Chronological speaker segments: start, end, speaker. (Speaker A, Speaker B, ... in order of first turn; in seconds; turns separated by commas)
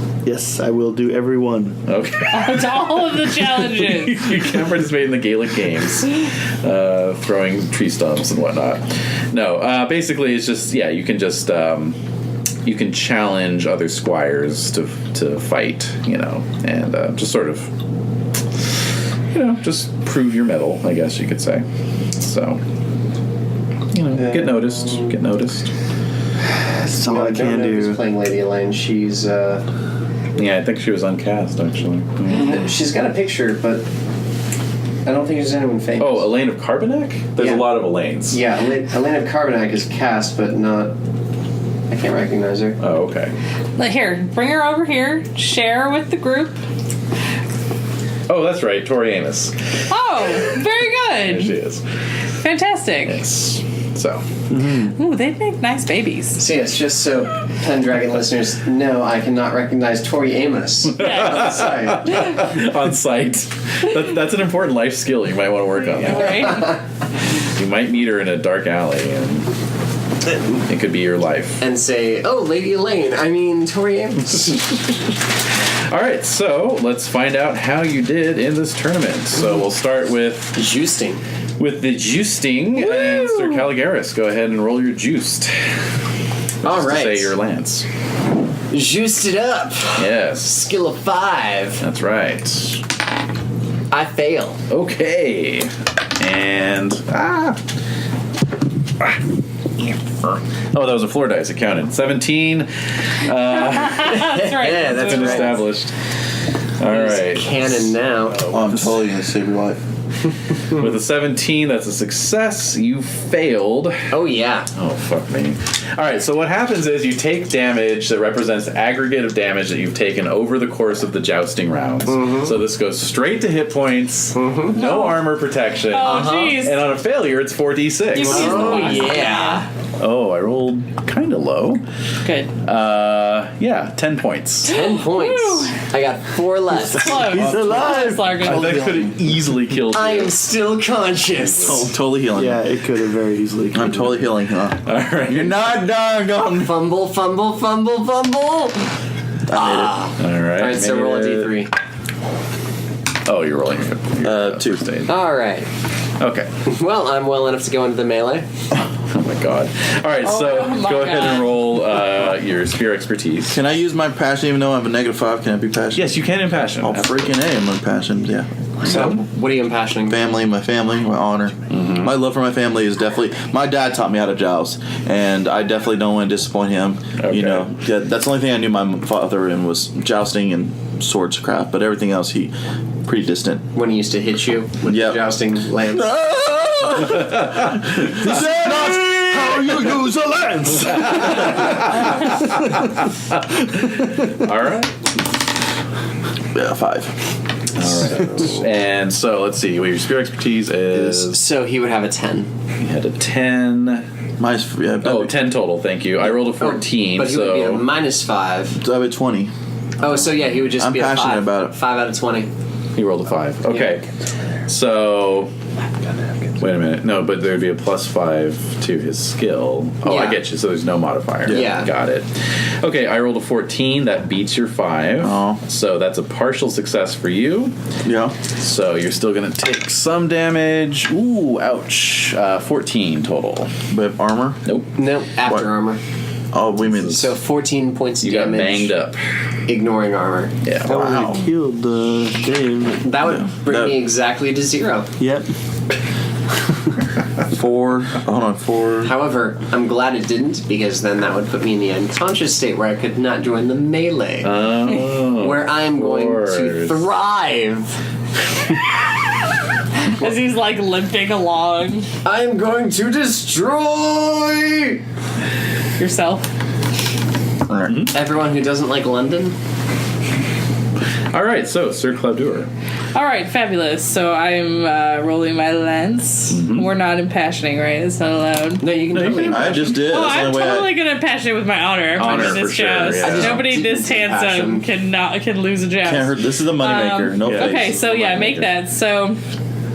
Speaker A: 0.2-1.8, Speaker B: 1.9-12.0, Speaker C: 2.3-4.4, Speaker B: 12.6-17.7, Speaker B: 19.3-21.6, Speaker B: 22.2-22.6, Speaker B: 23.9-25.7, Speaker D: 24.2-25.1, Speaker D: 26.5-29.6, Speaker A: 26.9-28.0, Speaker B: 30.3-32.6, Speaker D: 32.3-33.8, Speaker D: 35.0-36.3, Speaker B: 36.0-38.4, Speaker D: 37.4-37.7, Speaker D: 38.3-40.9, Speaker D: 41.9-42.8, Speaker B: 42.8-43.3, Speaker C: 43.8-46.6, Speaker B: 48.3-49.5, Speaker C: 49.9-51.5, Speaker B: 51.2-51.8, Speaker C: 52.4-53.2, Speaker B: 53.0-54.2, Speaker A: 54.5-54.9, Speaker C: 54.7-56.4, Speaker D: 56.4-62.4, Speaker B: 60.9-66.7, Speaker C: 61.0-61.8, Speaker C: 65.9-66.7, Speaker D: 66.5-66.8, Speaker B: 67.4-69.5, Speaker B: 70.7-71.6, Speaker D: 71.6-74.7, Speaker B: 75.9-80.6, Speaker D: 80.5-81.2, Speaker B: 81.6-85.5, Speaker D: 82.8-83.7, Speaker D: 86.6-87.3, Speaker B: 86.6-87.8, Speaker D: 88.7-91.8, Speaker B: 90.0-90.7, Speaker B: 91.8-92.8, Speaker D: 93.9-94.6, Speaker B: 94.7-97.6, Speaker B: 100.7-105.9, Speaker C: 103.7-105.6, Speaker D: 104.1-105.6, Speaker B: 106.8-108.9, Speaker D: 106.9-108.5, Speaker E: 108.5-109.8, Speaker B: 110.7-114.0, Speaker D: 114.1-114.7, Speaker B: 114.7-129.1, Speaker D: 122.1-122.5, Speaker D: 124.3-124.8, Speaker C: 124.8-125.2, Speaker C: 125.9-126.8, Speaker D: 126.0-126.6, Speaker C: 128.1-129.7, Speaker D: 128.2-129.7, Speaker B: 130.0-131.8, Speaker C: 132.2-132.5, Speaker B: 132.6-134.7, Speaker C: 134.7-135.7, Speaker D: 134.7-137.5, Speaker C: 136.8-139.1, Speaker A: 137.0-138.2, Speaker B: 138.4-140.4, Speaker D: 139.9-141.9, Speaker A: 141.6-144.2, Speaker E: 141.6-142.6, Speaker E: 143.7-146.7, Speaker B: 144.8-145.6, Speaker D: 146.4-148.8, Speaker E: 149.5-150.0, Speaker D: 149.5-151.7, Speaker B: 150.2-151.6, Speaker B: 153.2-155.1, Speaker E: 154.2-155.0, Speaker D: 155.1-155.7, Speaker B: 156.2-156.5, Speaker D: 156.6-158.4, Speaker B: 159.1-163.6, Speaker C: 160.2-161.7, Speaker E: 163.5-168.9, Speaker B: 165.9-167.3, Speaker B: 168.8-169.2, Speaker D: 168.8-170.2, Speaker E: 170.1-182.5, Speaker B: 171.7-172.1, Speaker B: 177.2-177.7, Speaker E: 183.0-183.7, Speaker D: 183.7-186.1, Speaker E: 184.8-185.3, Speaker E: 185.9-190.1, Speaker A: 188.1-193.0, Speaker E: 190.9-191.6, Speaker B: 191.4-192.9, Speaker B: 193.5-194.9, Speaker E: 196.5-197.2, Speaker B: 197.7-201.4, Speaker D: 198.1-198.6, Speaker E: 200.9-201.3, Speaker D: 201.3-202.5, Speaker B: 202.8-204.0, Speaker E: 204.4-205.3, Speaker B: 205.0-207.8, Speaker D: 206.3-208.8, Speaker E: 208.7-209.5, Speaker D: 210.0-212.5, Speaker E: 210.8-211.7, Speaker B: 212.9-214.1, Speaker D: 213.7-213.9, Speaker B: 214.7-215.5, Speaker B: 216.6-227.7, Speaker D: 220.0-220.4, Speaker E: 221.4-221.7, Speaker D: 221.5-221.9, Speaker E: 225.2-225.6, Speaker E: 228.0-228.3, Speaker B: 228.6-233.7, Speaker E: 233.9-234.6, Speaker B: 234.6-234.9, Speaker D: 234.9-236.0, Speaker E: 236.5-237.3, Speaker B: 236.8-237.2, Speaker D: 237.1-238.9, Speaker B: 238.2-239.2, Speaker D: 239.7-240.5, Speaker B: 240.6-241.0, Speaker A: 240.8-243.1, Speaker E: 240.9-241.4, Speaker D: 243.0-245.1, Speaker E: 243.2-244.0, Speaker A: 245.2-245.5, Speaker E: 247.4-249.1, Speaker D: 249.0-254.7, Speaker B: 254.4-257.1, Speaker D: 255.2-257.9, Speaker C: 260.0-262.1, Speaker D: 262.2-265.0, Speaker C: 266.0-266.5, Speaker E: 267.7-268.1, Speaker B: 267.9-268.1, Speaker D: 268.1-269.5, Speaker B: 271.3-272.7, Speaker C: 273.1-279.1, Speaker B: 276.5-276.9, Speaker D: 278.8-280.0, Speaker B: 279.1-279.9, Speaker E: 279.4-281.0, Speaker C: 280.0-289.4, Speaker B: 282.1-283.7, Speaker D: 282.2-282.7, Speaker D: 283.2-284.9, Speaker E: 286.0-288.0, Speaker B: 287.4-288.8